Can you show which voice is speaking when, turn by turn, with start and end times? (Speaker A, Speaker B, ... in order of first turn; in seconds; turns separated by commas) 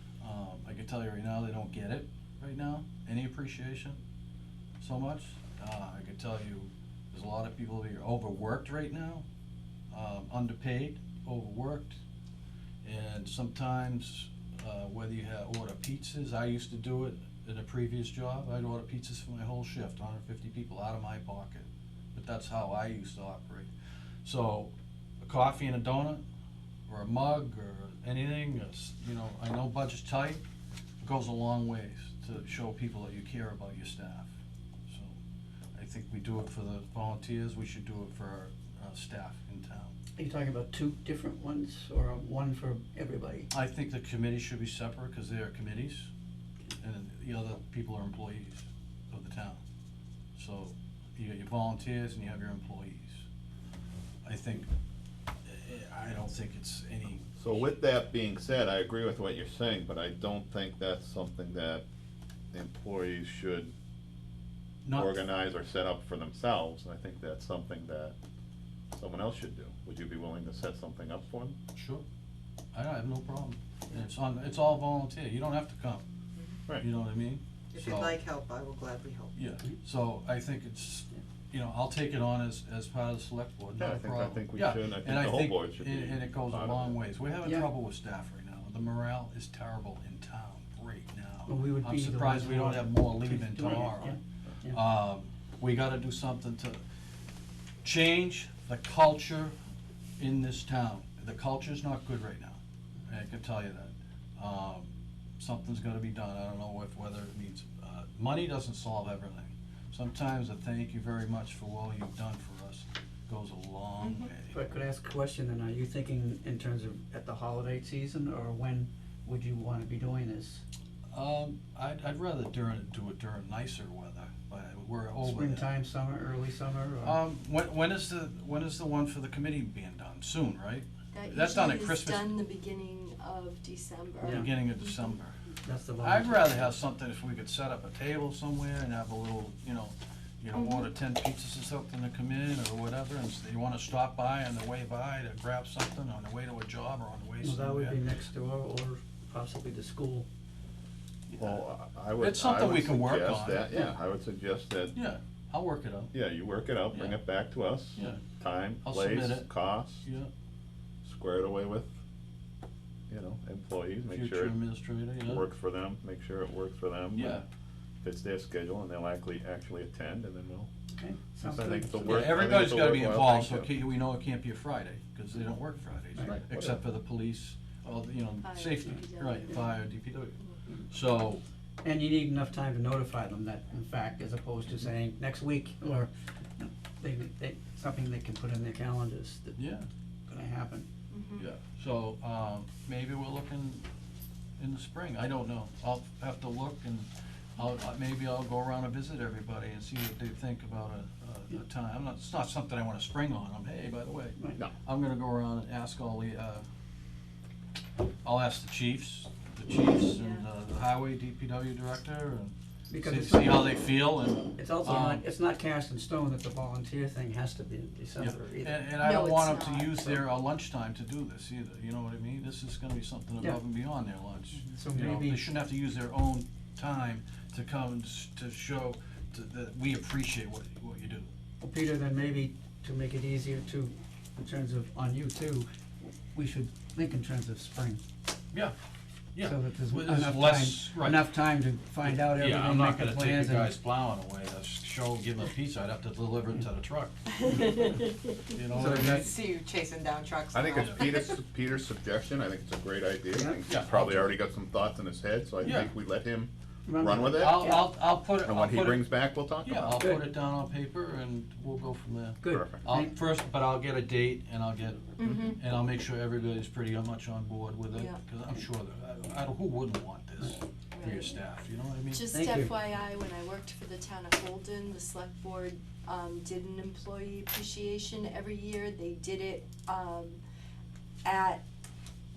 Speaker A: 0.2-4.0, Speaker A: 4.8-9.2, Speaker A: 9.9-12.0, Speaker A: 12.8-23.7, Speaker A: 24.2-26.2, Speaker A: 26.9-30.4, Speaker A: 31.0-34.3, Speaker A: 34.9-35.2, Speaker A: 35.7-40.0, Speaker B: 40.1-43.5, Speaker A: 43.5-46.1, Speaker A: 46.8-49.6, Speaker A: 50.3-53.2, Speaker A: 54.2-54.7, Speaker A: 55.5-57.6, Speaker C: 57.4-61.8, Speaker C: 62.5-63.7, Speaker A: 64.8-65.2, Speaker C: 64.9-68.2, Speaker C: 68.9-71.6, Speaker A: 71.7-72.0, Speaker A: 72.7-76.0, Speaker A: 76.8-78.2, Speaker D: 77.7-79.3, Speaker A: 79.3-96.8, Speaker C: 83.8-87.0, Speaker B: 87.4-87.7, Speaker B: 91.5-94.8, Speaker A: 97.8-99.5, Speaker A: 100.2-114.7, Speaker E: 114.0-114.3, Speaker B: 114.5-120.6, Speaker A: 121.1-125.7, Speaker B: 125.2-127.2, Speaker A: 127.0-132.3, Speaker E: 131.1-135.1, Speaker B: 134.2-134.5, Speaker A: 134.2-135.4, Speaker B: 135.6-136.7, Speaker A: 136.0-148.0, Speaker E: 140.5-140.9, Speaker B: 147.4-150.3, Speaker A: 151.3-151.6, Speaker C: 151.4-154.9, Speaker A: 152.2-153.8, Speaker A: 154.9-156.1, Speaker C: 156.1-160.0, Speaker A: 156.9-157.2, Speaker A: 158.0-158.2, Speaker A: 158.8-159.5, Speaker A: 160.0-160.3, Speaker C: 161.0-161.9, Speaker C: 163.1-164.6, Speaker A: 164.1-165.4, Speaker C: 165.2-167.4, Speaker A: 167.1-167.4, Speaker C: 168.0-170.7, Speaker B: 170.9-172.3, Speaker C: 171.4-173.7, Speaker A: 172.1-181.4, Speaker C: 176.2-176.8, Speaker E: 178.4-179.8, Speaker B: 181.8-189.6, Speaker A: 189.6-189.9, Speaker B: 190.3-190.9, Speaker E: 191.1-191.5, Speaker A: 191.4-193.8, Speaker A: 194.6-206.6, Speaker A: 208.2-215.2, Speaker E: 210.0-210.4, Speaker B: 212.9-213.8, Speaker B: 214.5-218.8, Speaker A: 218.2-231.3, Speaker E: 219.0-220.2, Speaker B: 224.7-225.5, Speaker B: 231.6-235.7, Speaker B: 236.2-238.0, Speaker A: 239.3-241.3, Speaker B: 239.4-243.7, Speaker A: 242.0-247.7, Speaker E: 247.4-248.5, Speaker A: 248.5-249.3, Speaker B: 248.8-249.3, Speaker D: 248.8-251.4, Speaker C: 250.5-260.1, Speaker B: 253.3-253.6, Speaker A: 253.7-254.3, Speaker A: 255.6-255.9, Speaker B: 256.9-257.8, Speaker A: 257.3-259.1, Speaker A: 259.6-272.3, Speaker B: 260.0-260.3, Speaker B: 262.4-263.1, Speaker C: 262.5-262.8, Speaker E: 265.2-265.6, Speaker E: 267.9-268.2, Speaker E: 270.9-271.4, Speaker E: 272.1-280.4, Speaker B: 272.3-272.7, Speaker E: 281.2-281.6